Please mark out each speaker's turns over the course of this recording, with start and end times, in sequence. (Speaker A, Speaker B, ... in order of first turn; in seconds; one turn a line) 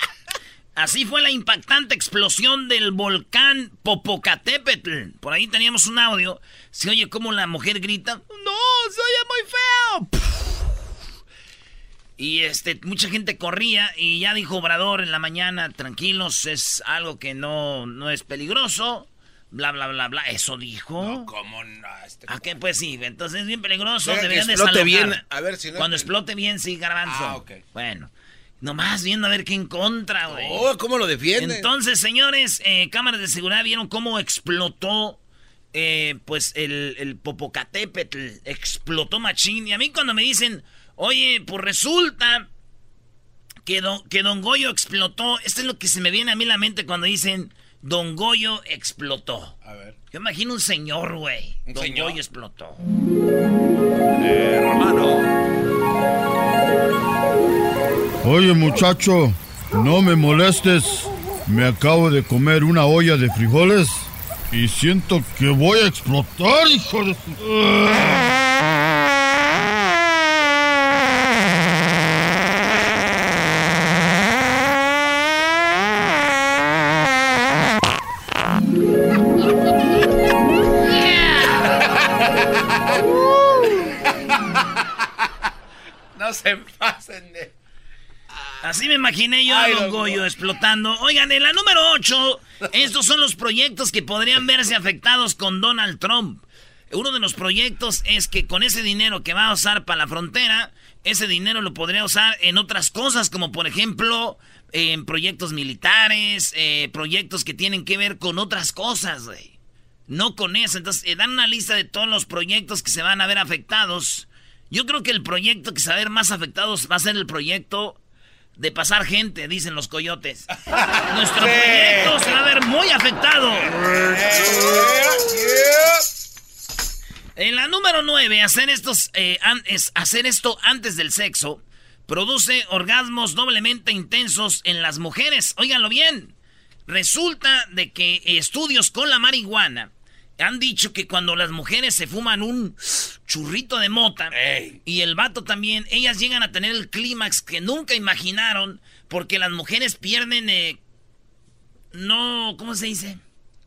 Speaker A: 0.8-10.6
Speaker A: 12.2-21.3
Speaker B: 21.0-22.5
Speaker A: 22.3-25.2
Speaker B: 24.0-26.1
Speaker A: 25.8-28.1
Speaker B: 27.0-27.6
Speaker A: 28.6-30.7
Speaker B: 30.3-31.7
Speaker A: 31.4-35.2
Speaker A: 35.7-42.5
Speaker A: 43.6-49.5
Speaker B: 49.6-49.9
Speaker A: 50.1-52.8
Speaker B: 51.6-52.2
Speaker B: 54.4-55.1
Speaker A: 54.7-55.0
Speaker C: 58.2-68.2
Speaker B: 81.7-82.1
Speaker B: 86.2-87.5
Speaker B: 88.3-88.7
Speaker A: 88.6-109.5
Speaker B: 89.5-90.3
Speaker A: 110.1-118.0
Speaker A: 118.5-120.5
Speaker B: 120.7-122.3
Speaker A: 121.1-124.6
Speaker B: 123.7-126.0
Speaker A: 127.3-136.3
Speaker A: 136.9-150.8
Speaker B: 144.3-144.8
Speaker A: 151.9-153.2